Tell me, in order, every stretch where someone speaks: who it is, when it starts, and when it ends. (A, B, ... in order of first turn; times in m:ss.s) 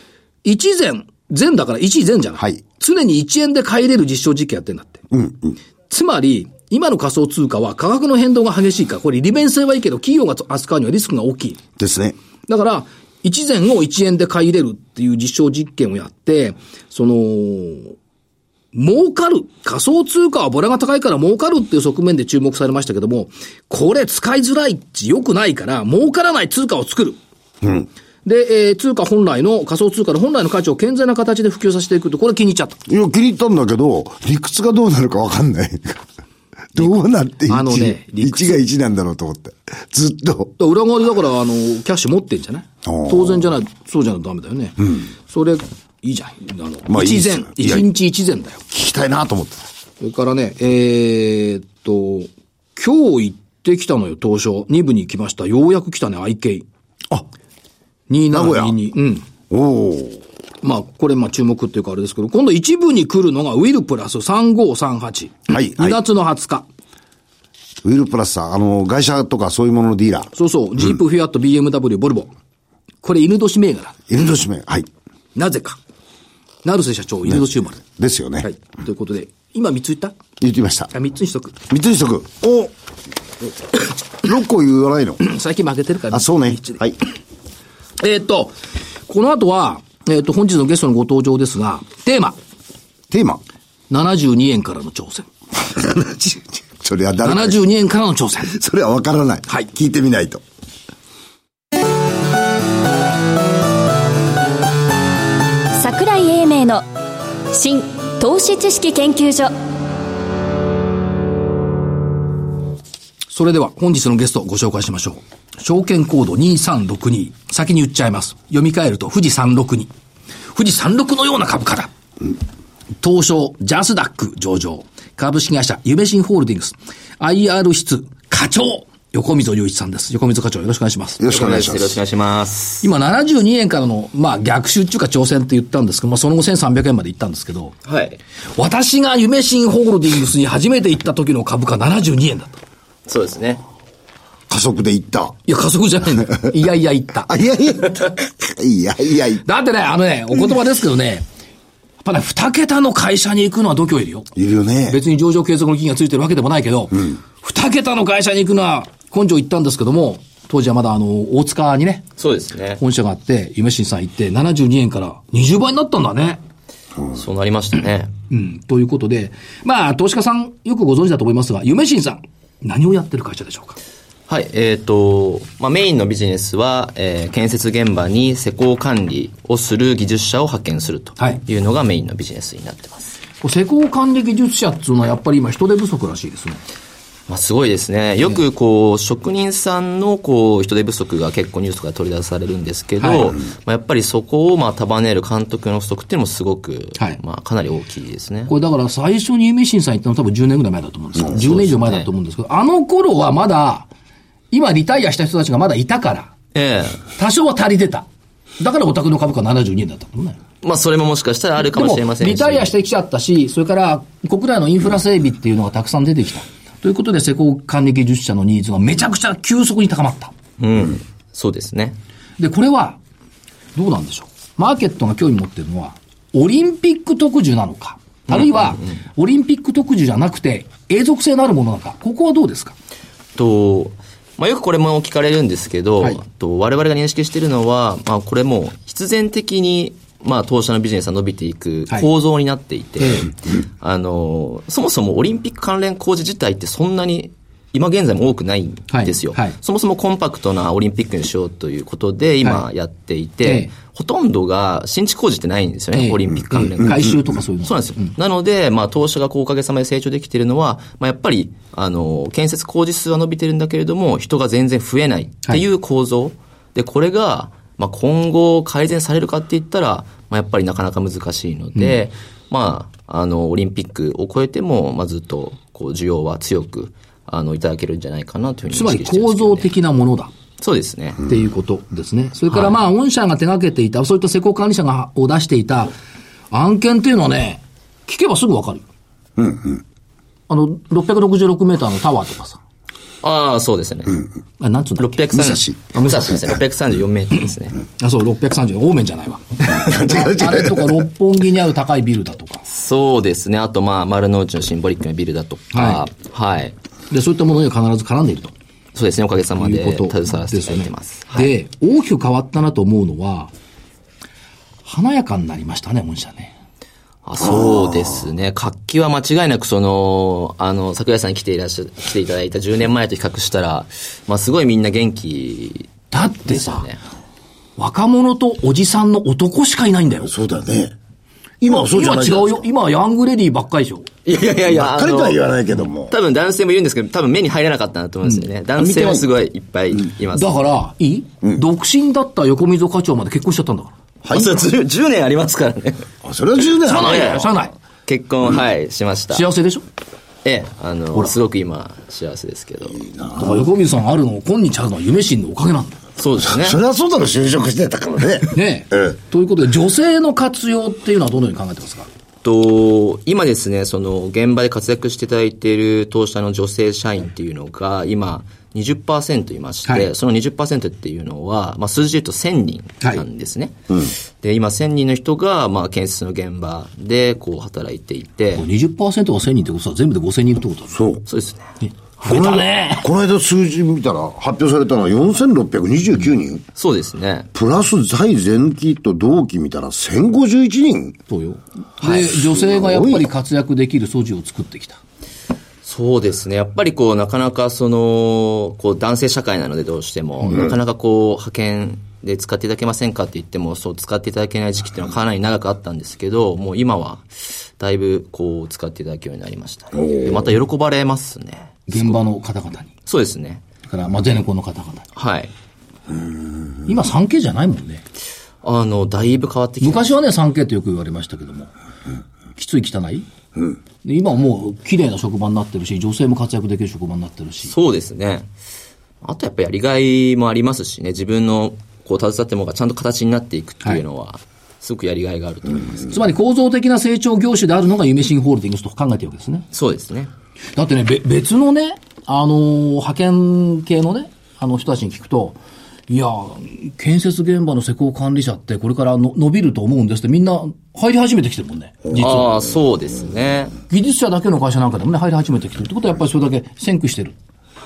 0:00.4-0:05.0 A
0:05.1-0:05.6 B
0:05.9-0:11.6 A
0:11.8-0:12.2 B
0:12.5-0:17.9 A
0:18.7-0:27.2 A
0:27.6-0:27.9 B
0:28.2-0:32.8 A
0:32.9-0:36.0 B
0:36.7-0:40.5 B
0:37.5-0:38.6 A
0:40.6-0:48.6 A
0:42.8-0:43.5 B
0:46.9-0:47.9 B
0:48.7-0:49.7 B
0:50.0-0:56.6 A
0:58.1-0:59.2 A
0:58.3-0:58.8 B
0:59.5-1:00.2 B
1:00.6-1:06.7 A
1:05.5-1:06.0 B
1:07.8-1:10.3 B
1:10.3-1:12.3 A
1:13.0-1:13.9 A
1:14.1-1:14.9 B
1:15.3-1:15.8 A
1:16.6-1:17.8 A
1:17.3-1:18.5 B
1:18.4-1:20.1 A
1:20.4-1:20.9 B
1:20.9-1:21.6 A
1:21.7-1:22.7 B
1:24.2-1:25.2 B
1:25.2-1:26.8 A
1:26.1-1:27.0 B
1:28.0-1:28.5 A
1:29.1-1:32.4 A
1:33.1-1:33.4 B
1:33.9-1:35.3 A
1:35.5-1:37.6 B
1:37.2-1:38.5 A
1:38.4-1:40.4 B
1:45.7-1:46.8 C
1:47.5-1:49.5 C
1:53.3-1:59.9 A
2:00.5-2:01.9 A
2:03.0-2:11.2 A
2:11.2-2:12.0 B
2:11.3-2:12.8 D
2:12.8-2:17.7 A
2:17.9-2:18.2 D
2:18.6-2:22.6 A
2:23.1-2:23.6 D
2:24.5-2:25.4 B
2:25.5-2:27.4 A
2:27.3-2:29.4 B
2:29.4-2:31.2 A
2:32.0-2:34.3 A
2:34.4-2:35.0 B
2:34.9-2:42.0 A
2:42.2-2:42.8 D
2:42.8-2:46.4 A
2:47.1-2:48.1 D
2:48.3-2:53.8 A
2:54.3-3:03.1 D
3:03.4-3:06.6 A
3:07.3-3:18.5 D
3:13.0-3:13.3 A
3:18.5-3:23.9 A
3:21.4-3:22.1 D
3:24.5-3:26.3 A
3:26.5-3:27.0 D
3:27.2-3:28.1 A
3:28.6-3:30.4 A
3:30.6-3:32.7 D
3:31.6-3:40.3 A
3:40.6-3:42.0 D
3:42.4-3:43.0 A
3:43.7-3:52.7 A
3:48.3-3:48.9 D
3:53.4-4:39.7 D
4:03.0-4:03.3 A
4:08.9-4:09.5 A
4:13.4-4:13.7 A
4:15.9-4:18.1 A
4:38.7-4:40.3 A
4:40.6-4:41.2 D
4:41.2-4:45.9 A
4:42.5-4:42.8 D
4:46.5-4:48.8 A
4:49.4-4:49.8 B
4:50.5-4:52.6 A
4:53.2-4:54.3 D
4:54.6-4:55.2 A
4:55.0-4:57.8 D
4:55.3-4:56.0 B
4:58.0-5:02.6 A
4:59.7-5:01.0 B
5:02.7-5:06.7 D
5:05.7-5:06.0 A
5:07.1-5:08.5 A
5:08.9-5:11.5 D
5:09.6-5:13.5 A
5:14.8-5:16.5 A
5:17.2-5:27.0 D
5:26.1-5:26.9 A
5:27.8-5:30.3 A
5:30.2-5:30.9 B
5:31.6-5:32.6 B
5:31.7-5:34.1 A
5:34.2-5:35.4 D
5:34.7-5:36.1 B
5:36.1-5:40.6 D
5:38.8-5:39.2 B
5:40.3-5:43.9 A
5:44.2-5:44.6 B
5:44.3-5:46.1 D
5:46.2-5:47.4 B
5:46.8-5:47.7 A
5:46.9-5:49.4 D
5:49.3-5:49.8 A
5:50.4-5:53.0 D
5:52.9-5:53.7 B
5:53.3-5:56.0 A
5:56.2-5:56.8 D
5:56.4-5:59.1 B
5:58.5-6:02.1 A
6:02.4-6:13.7 D
6:09.8-6:10.1 A
6:14.4-6:18.6 D
6:18.6-6:21.0 A
6:20.9-6:21.2 B
6:21.3-6:21.7 D
6:21.8-6:23.0 A
6:22.2-6:26.6 B
6:26.8-6:27.5 D
6:27.5-6:31.2 B
6:31.3-6:35.0 A
6:32.4-6:33.2 B
6:35.8-6:52.1 D
6:50.0-6:50.5 B
6:51.9-6:52.9 A
6:53.0-6:53.6 D
6:53.8-6:55.0 A
6:55.2-6:55.5 D
6:56.8-6:58.0 A
6:58.6-7:00.1 D
6:59.8-7:01.7 A
7:02.6-7:03.2 A
7:04.0-7:07.7 A
7:07.7-7:08.5 D
7:09.2-7:16.1 D
7:16.1-7:19.6 A
7:19.7-7:20.3 D
7:20.8-7:25.6 A
7:26.1-7:32.5 A
7:32.1-7:33.8 D
7:33.9-7:37.4 A